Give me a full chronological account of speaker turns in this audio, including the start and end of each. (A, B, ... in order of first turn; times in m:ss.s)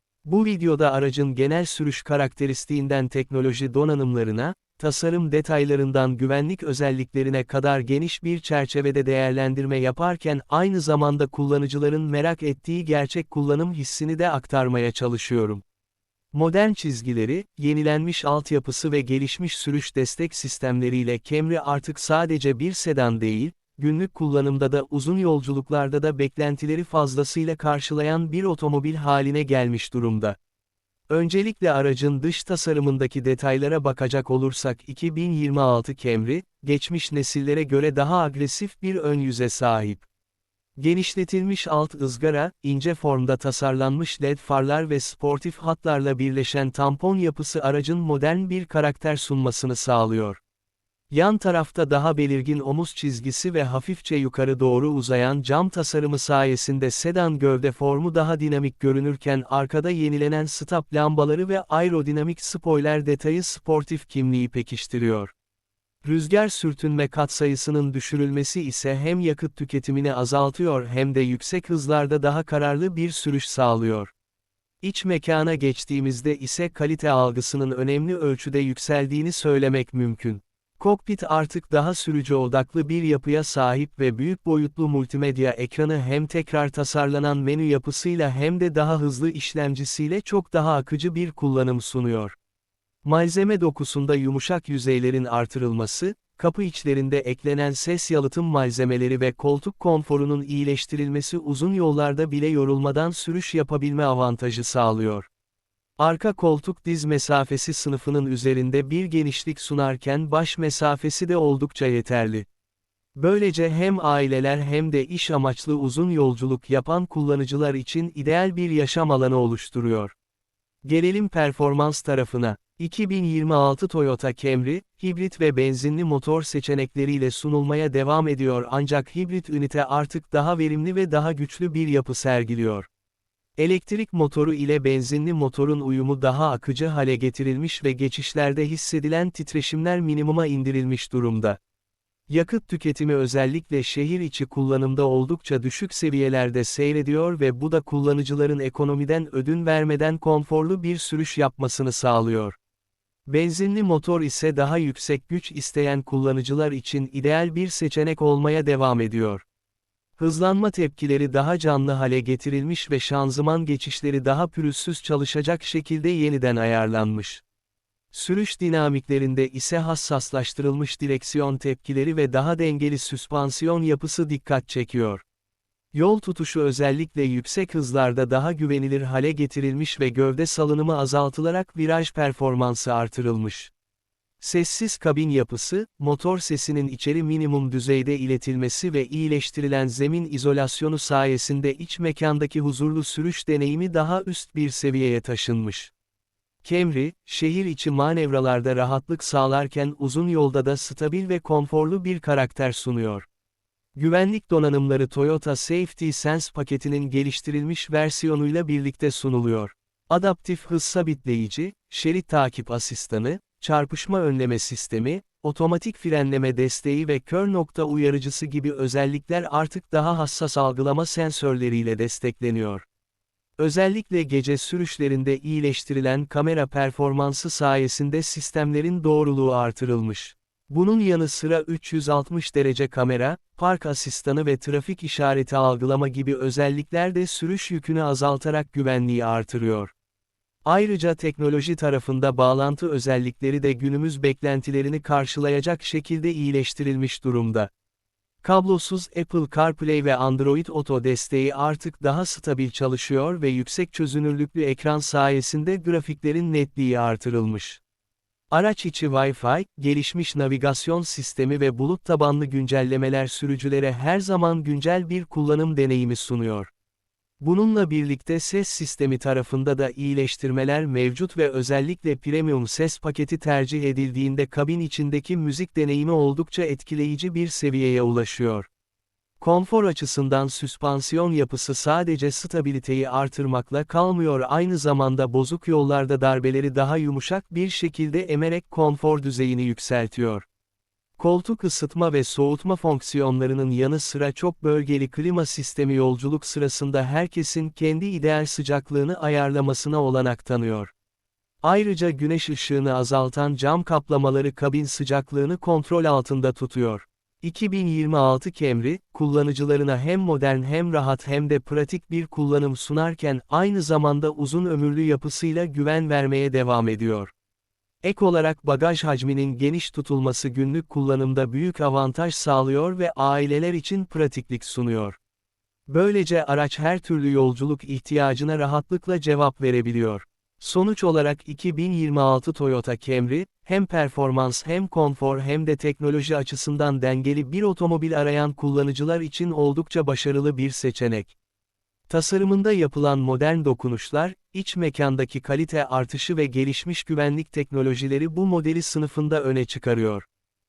0:00.2-0:15.6 A
0:16.3-0:30.4 A
0:31.1-0:40.0 A
0:40.8-0:50.4 A
0:51.1-1:05.3 A
1:06.0-1:14.1 A
1:14.8-1:32.4 A
1:33.0-1:45.3 A
1:46.0-1:52.5 A
1:53.2-2:00.1 A
2:00.8-2:12.9 A
2:13.6-2:21.6 A
2:22.3-2:32.6 A
2:33.3-2:39.4 A
2:40.2-2:47.4 A
2:48.1-2:55.2 A
2:55.9-3:03.7 A
3:04.4-3:15.9 A
3:16.6-3:23.3 A
3:23.9-3:42.8 A
3:43.6-3:59.9 A
4:00.6-4:07.7 A
4:08.4-4:17.8 A
4:18.5-4:26.7 A
4:27.4-4:38.7 A
4:39.4-4:50.4 A
4:51.2-5:00.9 A
5:01.6-5:17.3 A
5:18.0-5:25.2 A
5:25.9-5:41.3 A
5:42.1-5:50.2 A